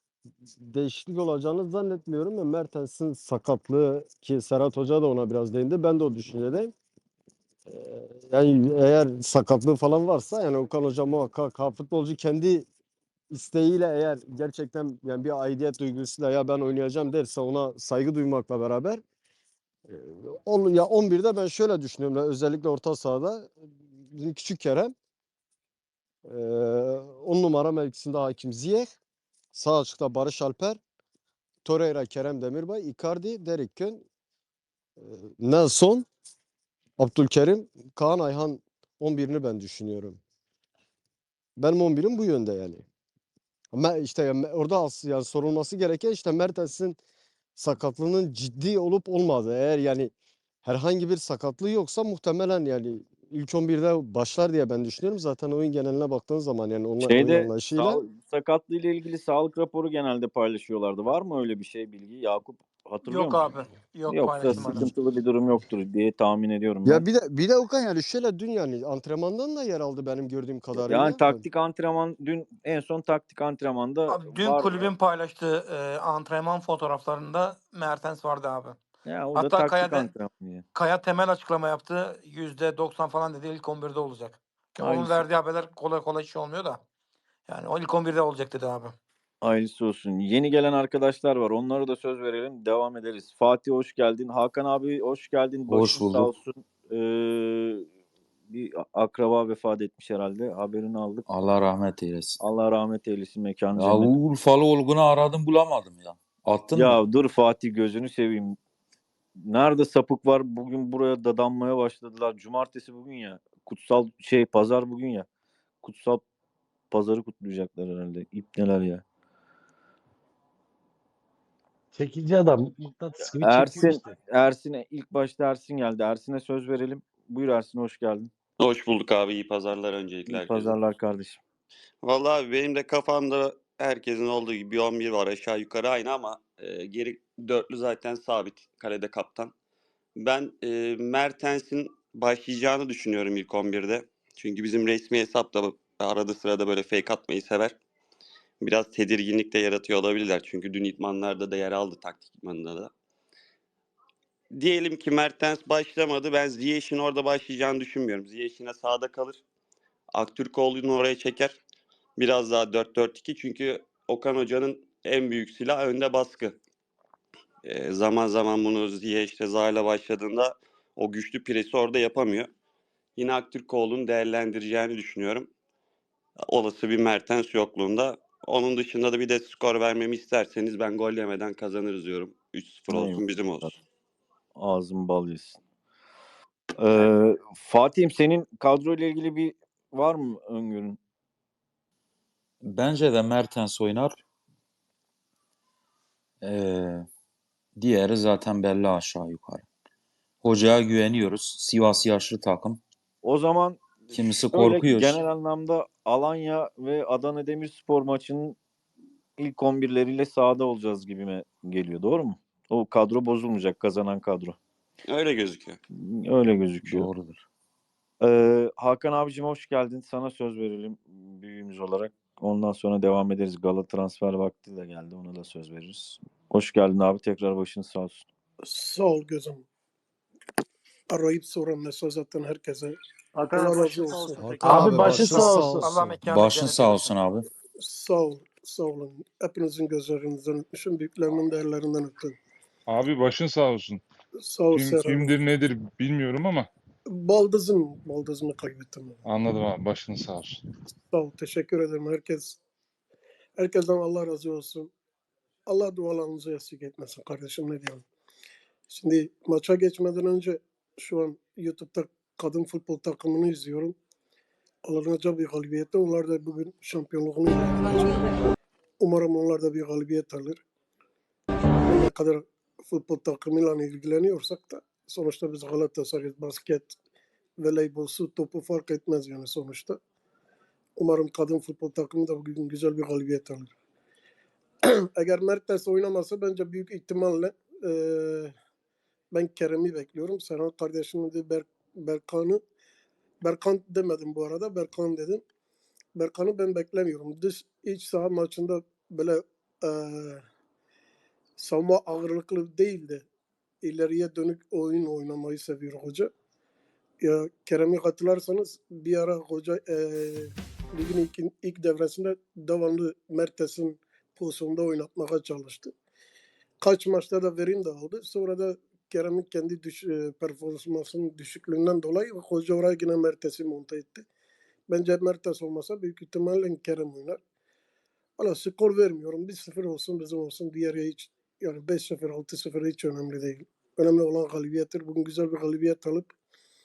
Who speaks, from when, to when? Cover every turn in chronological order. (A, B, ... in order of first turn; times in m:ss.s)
0:00.6-0:06.7 A
0:07.7-0:12.7 A
0:13.3-0:19.0 A
0:19.9-0:24.9 A
0:26.2-0:28.9 A
0:29.5-0:30.8 A
0:31.6-0:34.0 A
0:35.0-0:36.1 A
0:37.0-0:40.2 A
0:41.6-0:42.8 A
0:43.7-0:47.0 A
0:47.6-0:50.1 A
0:50.6-0:58.0 A
0:57.0-1:07.0 B
1:03.0-1:04.9 C
1:06.8-1:11.4 A
1:10.8-1:14.9 B
1:14.1-1:18.8 C
1:19.0-1:20.6 B
1:19.3-1:20.1 C
1:20.7-1:26.8 C
1:24.8-1:25.3 B
1:27.5-1:29.0 C
1:29.4-1:37.9 B
1:35.7-1:36.3 D
1:38.5-1:41.2 B
1:41.3-1:42.4 D
1:42.4-1:44.1 B
1:43.8-1:47.0 D
1:46.7-1:48.6 B
1:49.4-1:55.3 B
1:55.8-1:56.2 B
1:56.9-1:59.0 B
2:01.9-2:04.2 E
2:03.4-2:08.3 B
2:08.6-2:10.8 F
2:10.3-2:11.4 B
2:12.0-2:19.5 F
2:20.2-2:27.8 F
2:28.6-2:32.9 F
2:34.5-2:39.4 F
2:40.1-2:41.6 F
2:42.2-2:46.6 F
2:47.6-2:52.5 F
2:53.2-2:55.5 F
2:56.4-3:03.8 F
3:02.9-3:03.7 B
3:04.5-3:05.6 B
3:06.8-3:11.0 B
3:12.6-3:14.2 D
3:16.4-3:17.1 D
3:17.8-3:19.6 D
3:20.4-3:22.8 D
3:23.2-3:23.8 B
3:24.1-3:25.2 D
3:24.6-3:28.6 B
3:29.4-3:34.6 B
3:35.1-3:35.8 F
3:35.9-3:37.1 B
3:36.8-3:37.4 D
3:38.2-3:48.3 B
3:48.6-3:49.6 G
3:51.1-3:53.0 G
3:53.3-3:55.8 H
3:53.5-3:55.1 G
3:54.4-3:56.2 A
3:55.1-3:57.2 C
3:55.4-3:55.8 E
3:56.2-3:57.5 D
3:57.8-4:02.4 G
4:02.9-4:04.0 I
4:04.4-4:05.4 G
4:04.7-4:06.7 I
4:07.1-4:09.2 G
4:09.2-4:10.6 I
4:11.1-4:12.6 G
4:13.6-4:14.9 G
4:15.7-4:18.0 G
4:18.9-4:24.0 G
4:24.8-4:30.6 G
4:31.8-4:36.9 G
4:37.6-4:40.0 G
4:41.0-4:43.7 G
4:44.8-4:48.5 G
4:49.3-4:52.6 G
4:53.4-4:55.4 G
4:56.2-5:00.4 G
5:01.6-5:03.2 G
5:03.8-5:06.3 G
5:07.2-5:15.9 G
5:16.8-5:24.2 G
5:24.9-5:27.4 G
5:28.4-5:36.3 G